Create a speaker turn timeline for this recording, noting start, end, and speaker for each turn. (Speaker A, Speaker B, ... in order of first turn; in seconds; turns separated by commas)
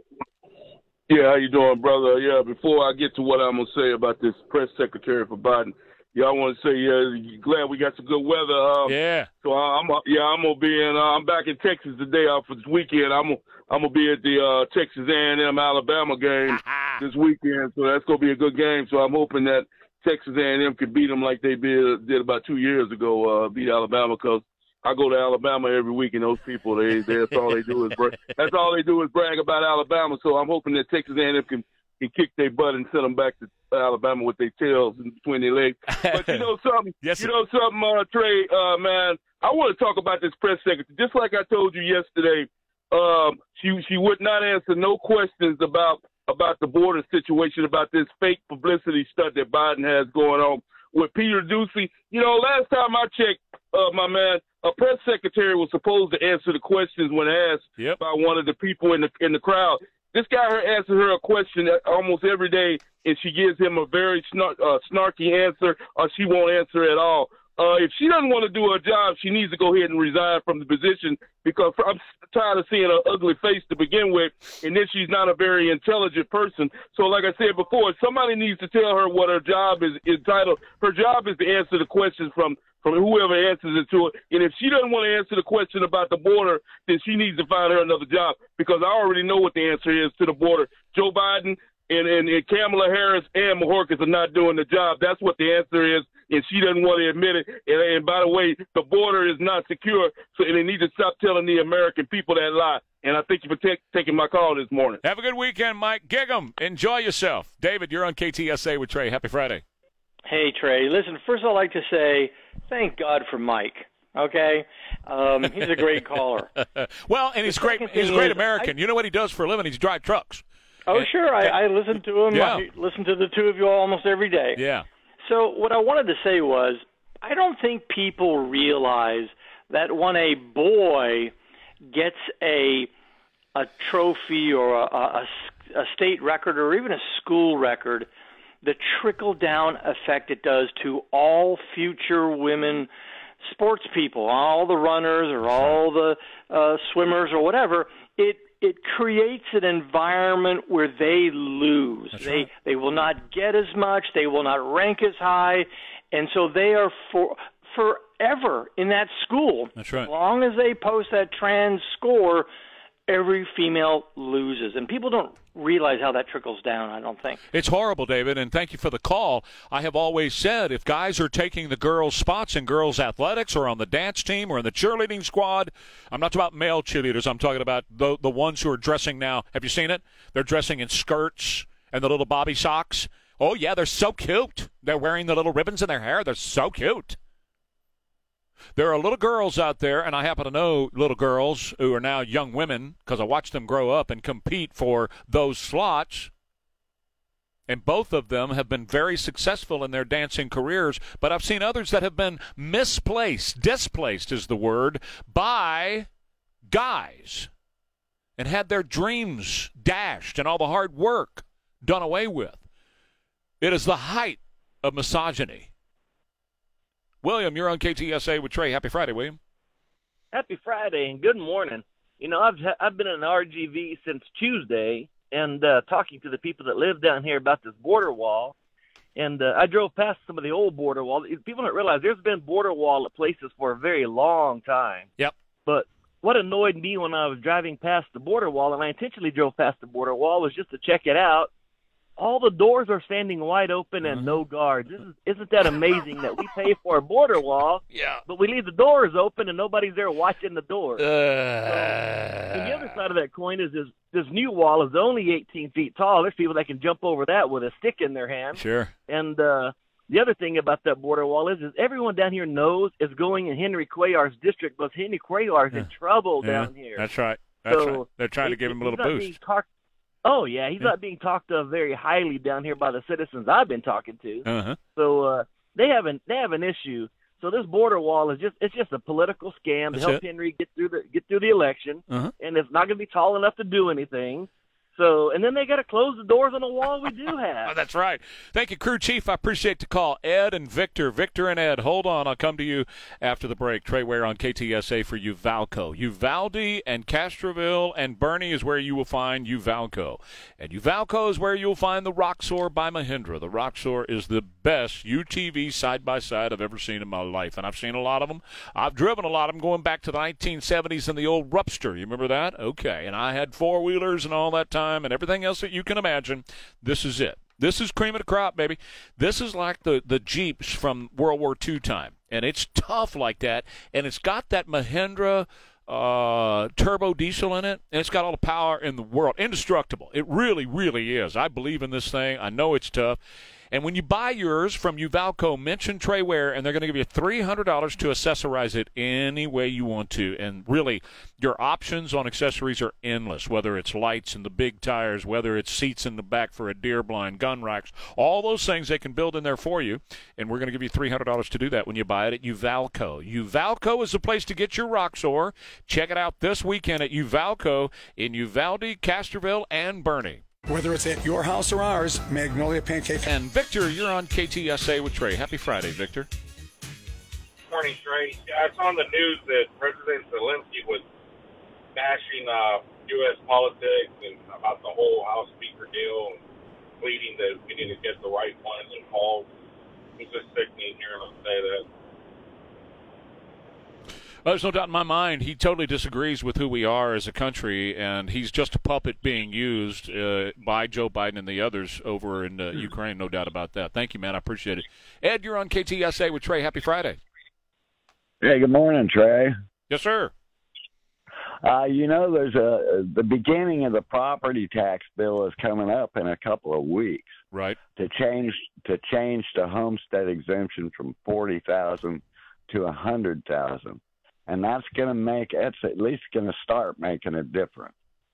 Speaker A: 1.1-105.0, Speaker B: 8.8-9.3, Speaker B: 16.5-17.0, Speaker B: 35.9-36.5, Speaker B: 37.0-37.3, Speaker B: 105.0-109.6, Speaker C: 110.3-116.5, Speaker B: 115.7-116.0, Speaker B: 116.6-122.7, Speaker C: 117.5-118.7, Speaker C: 120.9-124.6, Speaker B: 124.5-124.8, Speaker C: 125.2-131.3, Speaker C: 131.9-132.9, Speaker C: 133.6-138.1, Speaker C: 138.6-142.9, Speaker C: 143.4-162.5, Speaker B: 152.1-152.5, Speaker B: 159.8-160.1, Speaker C: 163.1-167.4, Speaker B: 167.5-187.2, Speaker B: 188.8-196.3, Speaker B: 197.7-206.1, Speaker B: 206.7-207.5, Speaker B: 208.4-212.7, Speaker B: 213.6-215.7, Speaker B: 217.2-219.4, Speaker D: 220.3-228.5, Speaker D: 229.2-235.1, Speaker D: 235.7-241.5, Speaker D: 242.2-251.0, Speaker B: 247.9-248.2, Speaker B: 251.0-253.0, Speaker D: 251.7-252.0, Speaker D: 252.5-267.0, Speaker B: 258.5-258.9, Speaker B: 266.4-269.4, Speaker D: 267.7-269.6, Speaker D: 270.3-287.7, Speaker B: 274.4-274.8, Speaker B: 279.9-280.2, Speaker B: 287.6-333.2, Speaker B: 333.7-360.4, Speaker E: 360.7-363.3, Speaker B: 363.2-366.3, Speaker F: 367.7-371.0, Speaker F: 371.9-376.4, Speaker F: 377.0-379.5, Speaker F: 380.2-381.9, Speaker B: 384.5-397.2, Speaker G: 398.4-399.5, Speaker B: 399.9-400.3, Speaker G: 401.6-407.3, Speaker B: 407.5-407.8, Speaker G: 408.0-417.9